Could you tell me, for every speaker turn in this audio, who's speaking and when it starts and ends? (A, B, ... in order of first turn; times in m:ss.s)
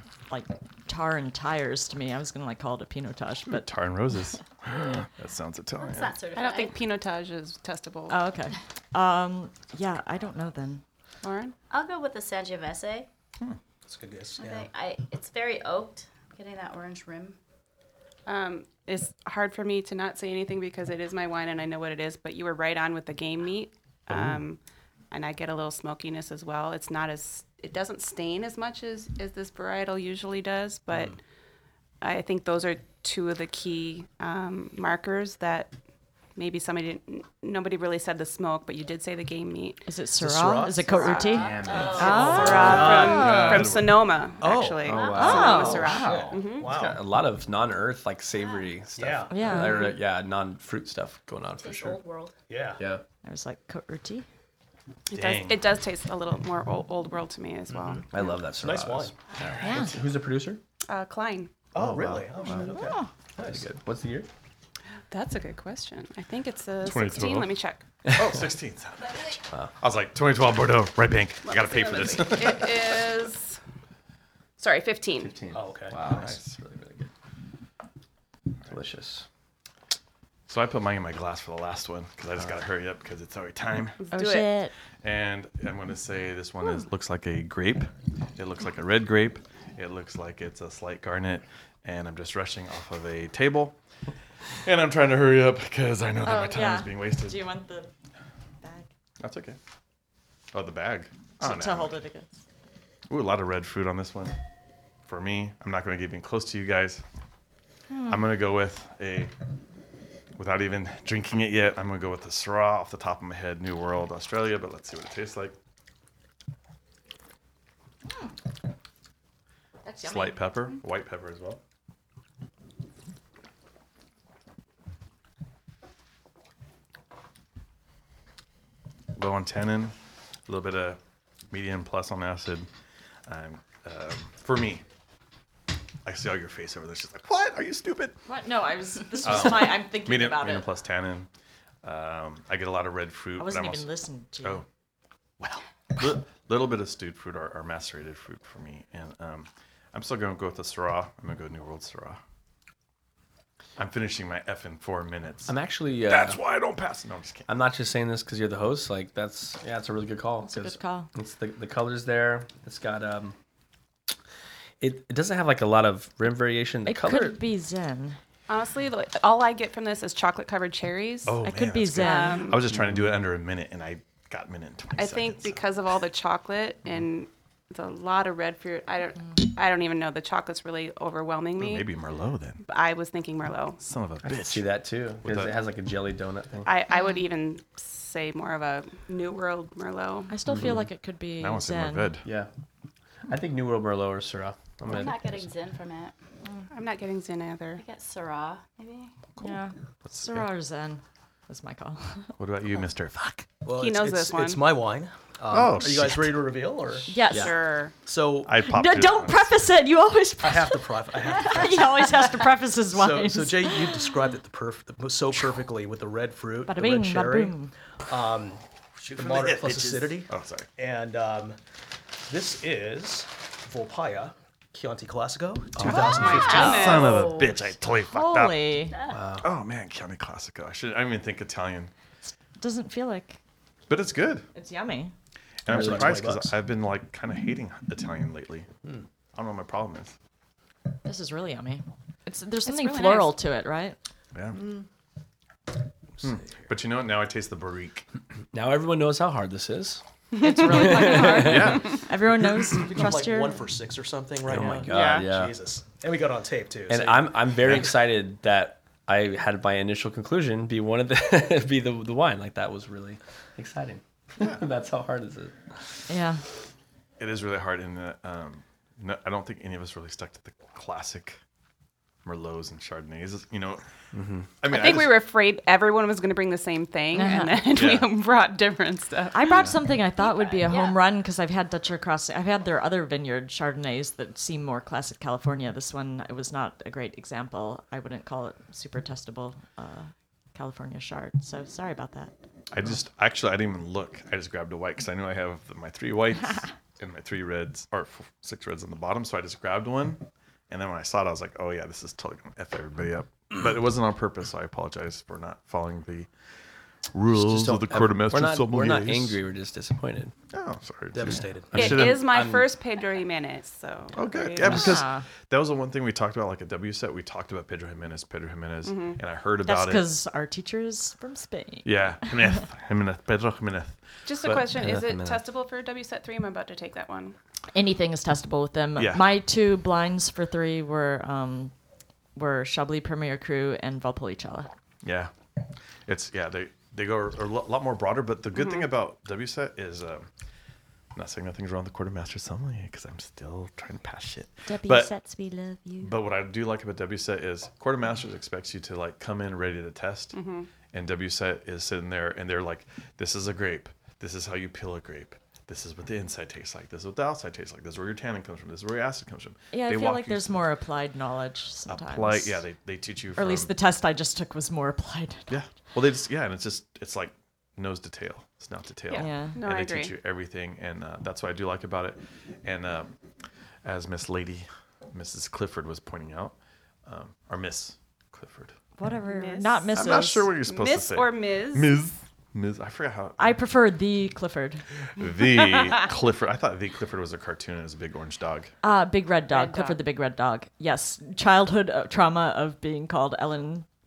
0:00.3-0:03.7 A
0:03.5-0:06.2 B
0:05.8-0:06.8 C
0:06.4-0:08.2 D
0:08.1-0:10.8 A
0:11.2-0:11.6 D
0:11.7-0:13.1 C
0:13.9-0:14.7 E
0:14.4-0:17.4 C
0:18.3-0:24.6 D
0:25.1-0:31.2 D
0:30.9-0:31.2 E
0:32.0-0:35.7 D
0:36.4-0:39.9 D
0:39.9-0:43.8 A
0:40.2-0:43.6 E
0:40.9-0:42.8 C
0:40.9-0:46.7 D
0:41.3-0:42.8 F
0:43.0-0:44.2 B
0:44.4-0:47.1 E
0:44.8-0:52.0 F
0:44.9-0:45.9 C
0:45.2-0:45.9 A
0:49.0-0:49.7 E
0:49.3-0:49.9 A
0:51.6-0:52.4 C
0:52.5-0:52.8 E
0:52.8-0:53.0 F
0:53.2-0:54.3 A
0:55.1-0:58.1 D
0:55.1-0:55.8 B
0:57.7-0:59.7 E
0:58.1-1:00.6 F
0:59.6-0:59.9 A
1:00.9-1:01.5 D
1:01.7-1:03.6 E
1:01.8-1:02.7 B
1:02.0-1:02.8 F
1:02.8-1:03.1 A
1:03.4-1:04.3 F
1:05.1-1:07.8 D
1:06.8-1:07.5 B
1:08.0-1:08.4 F
1:08.1-1:13.0 B
1:11.5-1:12.3 C
1:11.5-1:13.6 D
1:14.6-1:15.4 D
1:15.2-1:17.1 F
1:15.5-1:16.3 E
1:16.1-1:16.5 B
1:18.6-1:19.3 F
1:20.5-1:24.0 B
1:24.0-1:24.5 D
1:24.1-1:24.7 A
1:25.0-1:33.8 B
1:34.6-1:37.4 B
1:36.2-1:37.9 A
1:38.6-1:38.9 A
1:39.2-1:39.6 B
1:40.5-1:42.0 B
1:41.4-1:42.4 A
1:43.1-1:44.4 B
1:45.1-1:47.0 B
1:47.9-1:48.2 A
1:48.1-1:49.3 B
1:50.4-1:55.6 B
1:59.8-2:00.4 A
2:00.0-2:01.6 B
2:09.2-2:10.0 B
2:10.5-2:11.0 B
2:11.5-2:12.7 B
2:13.3-2:14.8 B
2:16.0-2:18.2 B
2:18.3-2:20.7 A
2:19.2-2:21.3 B
2:21.8-2:23.9 B
2:23.4-2:24.6 A
2:25.4-2:32.2 B
2:33.8-2:35.5 B
2:35.5-2:36.4 F
2:36.1-2:37.5 B
2:37.5-2:43.4 F
2:40.4-2:41.1 A
2:44.8-2:47.4 F
2:46.9-2:48.2 A
2:48.5-2:51.4 D
2:51.3-2:55.6 B
2:51.4-2:52.6 A
2:52.0-2:52.6 D
2:55.0-3:01.9 D
3:01.6-3:02.6 B
3:02.7-3:03.8 D
3:03.8-3:04.7 B
3:04.2-3:06.7 F
3:05.2-3:05.6 B
3:06.7-3:10.3 D
3:10.3-3:12.2 A
3:10.5-3:10.8 F
3:11.4-3:12.3 B
3:12.2-3:12.5 F
3:13.3-3:15.5 F
3:14.8-3:16.1 C
3:16.7-3:17.8 D
3:17.8-3:19.1 C
3:19.4-3:20.5 B
3:19.4-3:22.3 A
3:22.4-3:23.5 B
3:23.6-3:27.2 E
3:23.8-3:24.6 D
3:25.5-3:26.4 B
3:27.1-3:27.5 A
3:27.3-3:27.6 F
3:27.3-3:27.9 D
3:28.0-3:28.6 E
3:28.5-3:29.5 B
3:28.6-3:34.2 A
3:30.4-3:32.3 E
3:32.9-3:41.6 E
3:36.7-3:37.7 A
3:39.0-3:40.7 B
3:42.3-3:47.0 E
3:45.8-3:48.6 B
3:46.0-3:46.8 A
3:46.2-3:47.6 C
3:46.3-3:47.1 D
3:48.1-3:49.0 A
3:49.1-3:49.5 F
3:49.4-3:51.9 B
3:52.6-3:53.4 A
3:53.9-3:54.5 B
3:54.6-3:55.1 A
3:55.7-3:58.7 B
3:55.7-3:56.5 E
3:55.7-3:56.3 F
3:59.4-4:00.1 B
4:01.0-4:04.0 A
4:02.6-4:03.4 D
4:04.3-4:04.6 B
4:04.6-4:04.8 E
4:06.2-4:08.0 B
4:06.2-4:06.6 E
4:08.5-4:10.0 F
4:10.4-4:11.6 D
4:10.4-4:13.7 A
4:10.6-4:11.8 F
4:11.4-4:12.0 B
4:12.7-4:17.9 E
4:14.5-4:15.6 F
4:14.9-4:15.3 D
4:16.9-4:26.1 F
4:17.6-4:17.9 B
4:26.1-4:26.4 A
4:27.2-4:31.4 B
4:32.2-4:33.8 B
4:34.1-4:34.5 F
4:34.6-4:35.2 B
4:34.7-4:39.6 D
4:37.1-4:37.7 A
4:37.7-4:38.1 B
4:39.3-4:52.3 A
4:40.2-4:41.0 C
4:52.7-5:06.3 B
5:07.1-5:09.4 B
5:07.3-5:10.3 F
5:10.5-5:12.3 B
5:11.1-5:12.0 E
5:11.7-5:12.7 F
5:11.7-5:15.0 D
5:14.1-5:20.1 B
5:14.6-5:15.2 A
5:18.8-5:19.2 D
5:19.6-5:22.6 A
5:21.8-5:24.7 B
5:24.2-5:27.4 D
5:24.5-5:25.4 F
5:27.7-5:31.7 A
5:29.0-5:29.3 B
5:32.4-5:34.7 A
5:35.0-5:35.3 B
5:36.1-5:40.3 B
5:38.6-5:38.8 D
5:41.2-5:45.1 B
5:44.7-5:46.1 A
5:46.0-5:50.4 B
5:50.3-5:50.7 D
5:50.9-6:00.7 B
5:59.7-6:02.6 A
6:01.9-6:03.7 B
6:03.4-6:05.6 A
6:05.5-6:13.2 B
6:09.1-6:10.1 D
6:09.2-6:09.6 A
6:13.8-6:16.6 B
6:17.1-6:18.8 B
6:19.0-6:20.5 A
6:19.2-6:22.0 D
6:19.9-6:23.6 B
6:23.4-6:24.8 A
6:25.2-6:28.7 B
6:28.8-6:33.9 A
6:29.5-6:30.0 D